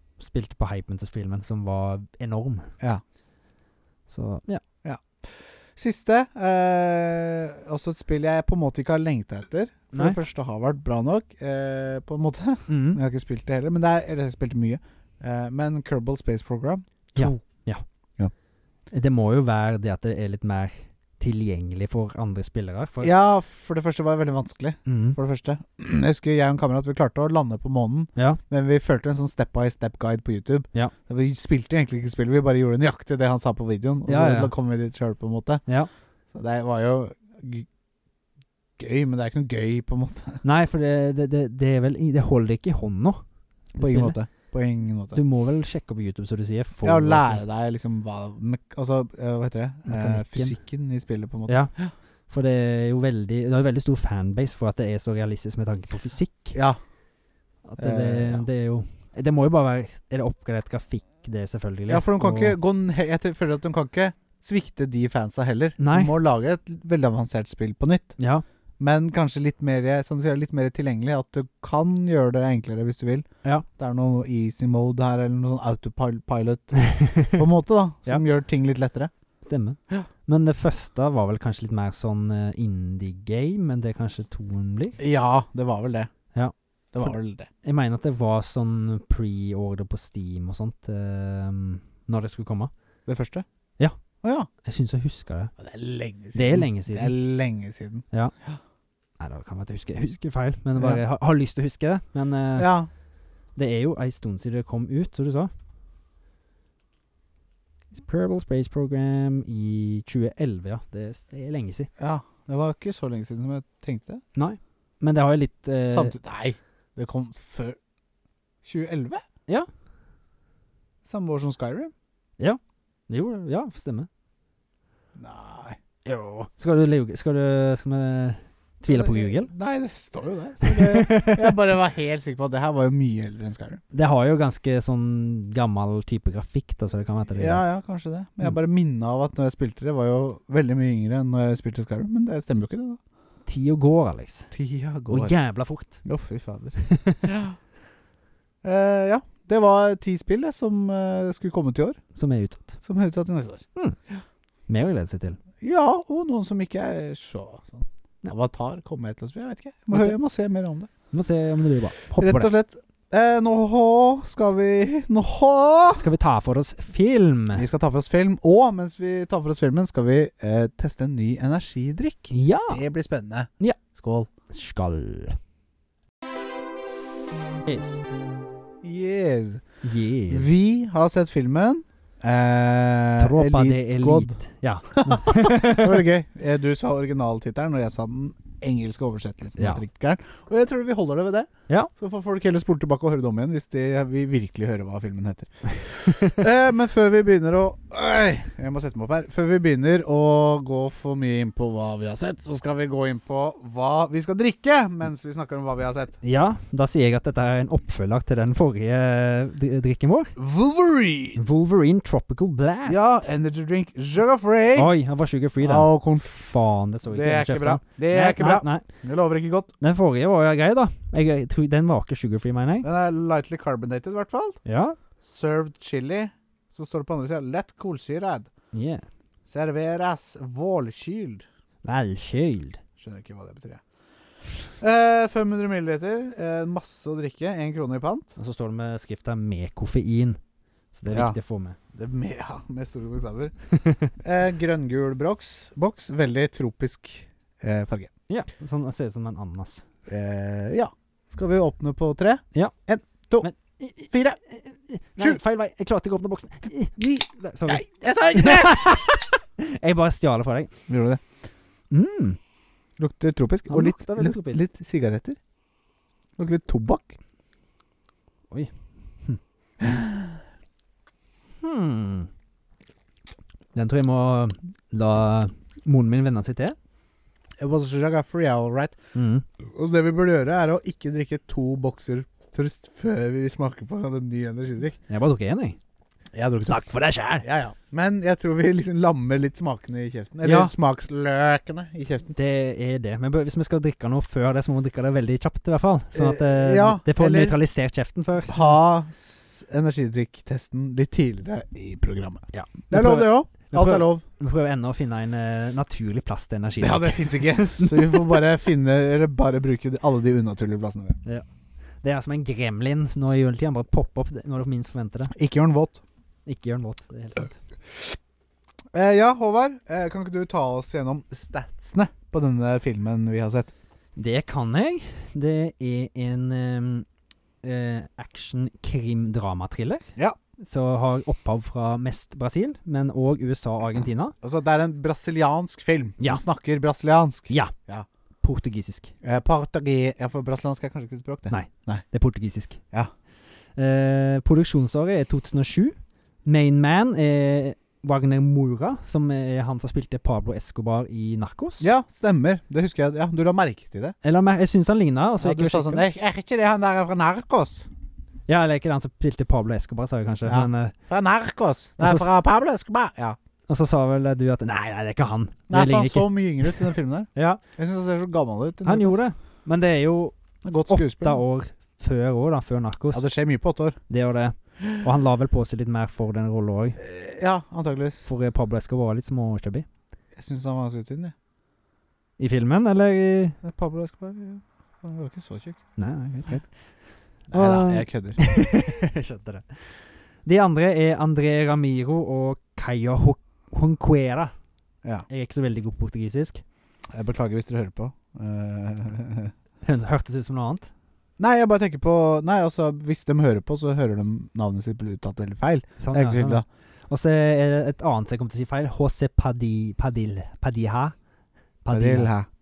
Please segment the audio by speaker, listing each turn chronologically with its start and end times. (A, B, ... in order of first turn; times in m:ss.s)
0:00.2-0:02.7 A
0:04.1-0:04.6 A
0:04.8-0:17.4 B
0:12.7-0:13.0 A
0:17.2-0:17.8 A
0:18.9-0:23.1 A
0:23.0-0:35.6 B
0:24.8-0:25.2 A
0:34.1-0:34.5 A
0:36.3-0:37.7 B
0:38.8-0:40.4 B
0:40.4-0:43.2 A
0:43.8-0:45.2 B
0:43.8-0:44.2 A
0:45.1-0:47.4 A
0:46.8-0:51.9 B
0:49.8-0:50.6 A
0:52.3-0:56.5 A
0:56.5-0:56.8 B
0:57.7-1:02.6 A
0:57.8-0:58.4 B
1:01.9-1:08.2 B
1:05.8-1:06.1 A
1:08.2-1:08.4 A
1:08.8-1:13.2 B
1:13.8-1:19.1 B
1:16.8-1:17.4 A
1:19.4-1:25.0 A
1:25.0-1:26.1 B
1:26.3-1:32.7 A
1:26.9-1:27.5 B
1:33.1-1:33.4 B
1:34.2-1:34.5 B
1:34.6-1:35.5 A
1:35.6-1:38.6 B
1:36.3-1:37.1 A
1:39.2-1:42.7 A
1:42.6-1:42.9 B
1:43.6-1:45.5 A
1:47.9-1:51.9 A
1:52.0-1:54.2 B
1:54.4-1:56.1 A
1:55.8-1:57.8 B
1:58.6-1:59.2 B
2:01.0-2:01.9 B
2:02.4-2:04.1 A
2:05.2-2:05.8 B
2:06.0-2:09.5 A
2:08.9-2:13.8 B
2:10.6-2:11.6 A
2:13.9-2:17.6 A
2:17.3-2:23.0 B
2:23.5-2:24.5 A
2:24.5-2:25.3 B
2:25.1-2:26.0 A
2:26.0-2:27.6 B
2:26.8-2:27.3 A
2:28.6-2:32.0 B
2:32.2-2:32.8 A
2:32.8-2:33.6 B
2:34.7-2:35.4 A
2:35.6-2:40.9 B
2:41.1-2:42.5 A
2:42.2-2:46.0 B
2:45.9-2:47.6 A
2:47.5-2:54.3 B
2:52.3-2:52.8 A
2:54.5-2:55.4 A
2:57.6-2:58.0 A
2:58.8-2:59.6 B
2:59.8-3:00.5 A
3:00.3-3:04.3 B
3:03.2-3:06.0 A
3:04.9-3:26.2 B
3:09.6-3:09.8 A
3:16.1-3:16.4 A
3:26.2-3:30.3 A
3:30.4-3:31.4 B
3:31.4-3:33.2 A
3:32.8-3:34.9 B
3:34.8-3:38.8 A
3:35.6-3:36.3 B
3:37.0-3:39.7 B
3:39.8-3:42.9 A
3:42.8-3:44.6 B
3:44.6-3:45.0 A
3:45.2-3:48.5 B
3:48.7-3:49.0 A
3:49.4-3:51.4 B
3:51.8-3:52.8 A
3:53.0-3:53.8 B
3:54.8-3:58.4 B
3:58.4-4:00.4 A
4:00.9-4:01.8 A
4:01.1-4:01.4 B
4:01.9-4:03.5 B
4:03.7-4:04.1 A
4:04.2-4:08.1 B
4:08.3-4:09.8 A
4:10.1-4:13.5 B
4:13.4-4:20.7 A
4:14.0-4:14.4 B
4:17.7-4:19.1 B
4:20.9-4:21.2 B
4:21.9-4:22.4 A
4:23.0-4:25.4 B
4:23.7-4:24.6 A
4:26.4-4:27.2 B
4:29.8-4:30.4 B
4:31.6-4:32.3 A
4:33.7-4:36.8 A
4:37.6-4:39.0 B
4:39.1-4:39.4 A
4:39.6-4:45.0 B
4:45.1-4:45.8 A
4:46.3-4:46.8 B
4:46.6-4:47.4 A
4:47.4-4:52.3 B
4:50.4-4:50.7 A
4:52.3-4:58.8 A
4:56.1-4:57.6 B
4:58.5-5:04.2 B
5:02.5-5:08.4 A
5:06.8-5:11.2 B
5:12.0-5:15.3 A
5:15.3-5:16.0 B
5:16.4-5:17.6 A
5:18.9-5:23.7 B
5:24.2-5:27.0 A
5:27.6-5:34.3 A
5:34.4-5:38.0 B
5:38.4-5:39.1 A
5:39.2-5:42.0 B
5:41.5-5:42.8 A
5:43.8-5:51.9 A
5:51.8-5:54.2 B
5:54.2-5:56.0 A
5:55.4-5:57.9 B
5:58.5-6:00.9 A
6:00.4-6:03.4 B
6:02.0-6:02.3 A
6:03.7-6:07.6 A
6:05.7-6:09.2 B
6:08.8-6:10.4 A
6:10.6-6:11.4 B
6:10.9-6:13.2 A
6:13.1-6:14.0 B
6:14.1-6:17.0 A
6:17.0-6:18.2 B
6:18.2-6:19.8 A
6:20.4-6:21.3 B
6:22.4-6:23.6 A
6:23.6-6:25.8 B
6:26.0-6:26.7 A
6:27.5-6:28.4 B
6:27.5-6:29.8 A
6:30.4-6:34.5 A
6:35.3-6:36.6 A
6:37.1-6:39.5 B
6:39.8-6:40.9 A
6:41.4-6:46.6 B
6:46.0-6:51.1 A
6:51.8-6:52.3 A
6:51.9-6:52.5 B